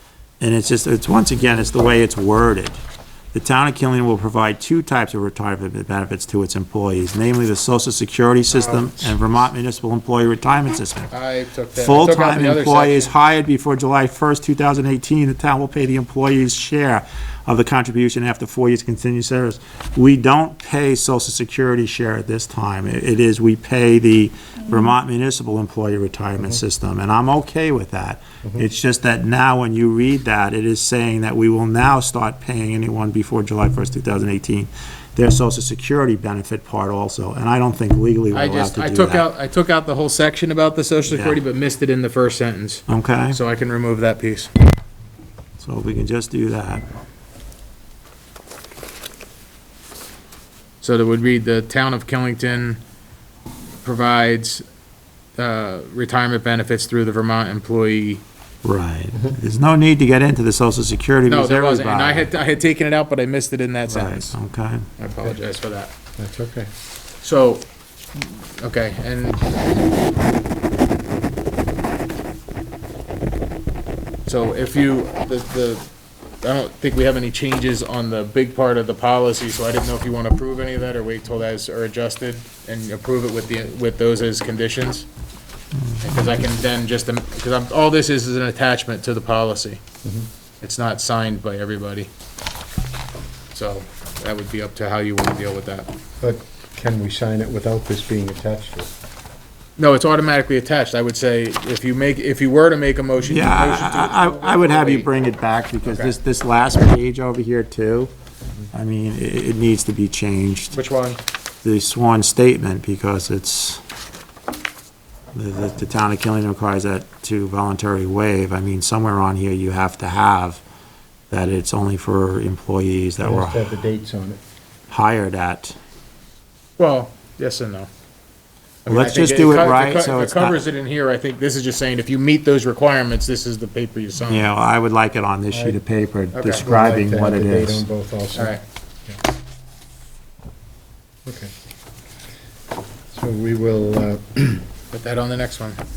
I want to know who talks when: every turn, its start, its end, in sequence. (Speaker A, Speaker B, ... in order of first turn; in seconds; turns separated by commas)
Speaker A: 0.4-2.8, Speaker A: 3.3-11.1, Speaker B: 8.5-9.1, Speaker B: 11.1-13.1, Speaker A: 11.8-39.3, Speaker B: 38.3-44.5, Speaker A: 41.1-41.4, Speaker A: 42.9-43.4, Speaker A: 45.6-46.8, Speaker B: 50.8-52.8, Speaker B: 53.8-54.6, Speaker B: 55.4-58.2, Speaker A: 58.6-62.3, Speaker B: 61.3-64.4, Speaker A: 63.9-64.9, Speaker B: 65.0-65.9, Speaker C: 66.2-66.7, Speaker B: 67.2-69.6, Speaker B: 74.3-75.9, Speaker B: 76.4-85.1, Speaker A: 85.8-86.2, Speaker B: 86.0-89.8, Speaker B: 90.6-92.1, Speaker B: 93.5-95.9, Speaker C: 96.2-98.9, Speaker B: 99.8-105.1, Speaker A: 103.2-108.1, Speaker B: 105.8-106.1, Speaker A: 108.7-110.8, Speaker B: 110.7-111.2, Speaker A: 111.6-113.8, Speaker A: 115.3-120.6, Speaker A: 121.3-123.8, Speaker C: 123.2-124.4, Speaker A: 124.9-125.8, Speaker B: 126.8-127.9, Speaker B: 128.9-134.5, Speaker A: 128.9-130.6, Speaker A: 134.2-137.8, Speaker C: 135.5-135.8, Speaker B: 136.3-136.7, Speaker C: 136.5-139.2, Speaker B: 138.3-138.6, Speaker C: 141.3-141.5, Speaker C: 143.1-144.7, Speaker B: 144.9-145.8